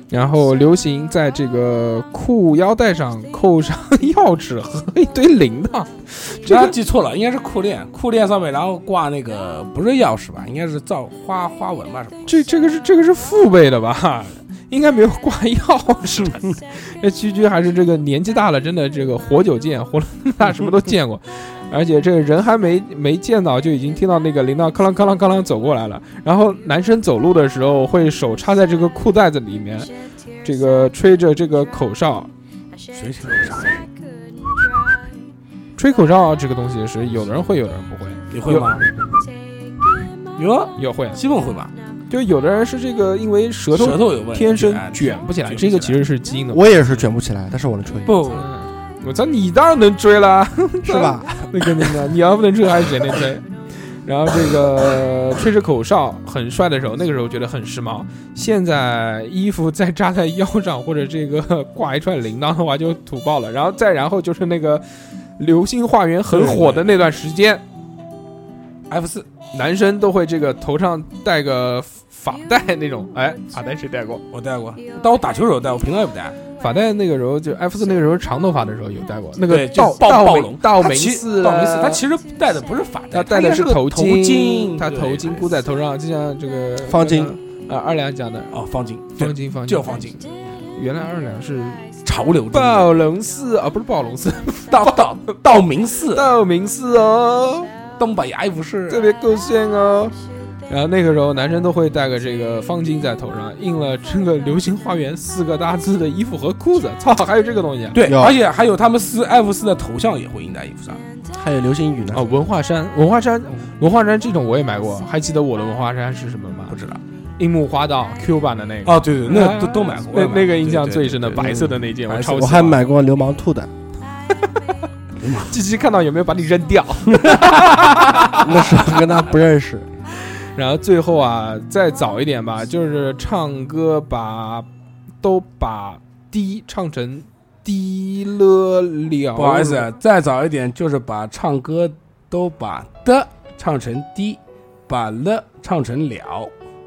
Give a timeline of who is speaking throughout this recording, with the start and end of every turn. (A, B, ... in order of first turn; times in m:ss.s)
0:00.1-0:06.8 A
0:06.5-0:12.4 B
0:12.3-0:29.9 A
0:30.4-0:32.3 A
0:32.9-0:33.9 B
0:35.8-0:38.8 A
0:38.3-0:38.9 B
0:40.4-0:41.7 B
0:40.8-0:41.2 A
0:42.1-0:46.6 A
0:43.7-0:46.0 B
0:46.5-0:48.2 C
0:48.1-0:48.5 B
0:48.3-1:04.8 A
0:50.8-0:51.4 C
1:05.4-1:07.6 A
1:06.3-1:06.9 B
1:08.9-1:09.3 B
1:09.5-1:14.2 A
1:14.3-1:16.4 B
1:16.6-1:22.0 A
1:19.5-1:25.6 B
1:23.1-1:28.6 A
1:26.8-1:27.4 C
1:28.5-1:30.3 B
1:29.2-1:30.2 A
1:30.8-1:31.8 A
1:32.0-1:33.0 B
1:32.5-1:35.0 A
1:34.7-1:36.3 B
1:36.1-1:37.7 A
1:38.0-1:39.1 B
1:38.9-1:40.2 A
1:40.7-1:48.0 A
1:47.9-1:51.0 B
1:48.0-1:48.4 C
1:51.4-1:52.3 C
1:52.1-1:56.8 A
1:56.7-1:57.0 B
1:57.4-2:02.8 A
1:58.9-2:02.6 B
2:02.3-2:03.7 C
2:05.2-2:05.5 B
2:05.5-2:08.8 A
2:07.3-2:07.6 B
2:08.4-2:09.9 C
2:10.6-2:14.7 A
2:15.2-2:19.9 A
2:19.4-2:26.5 B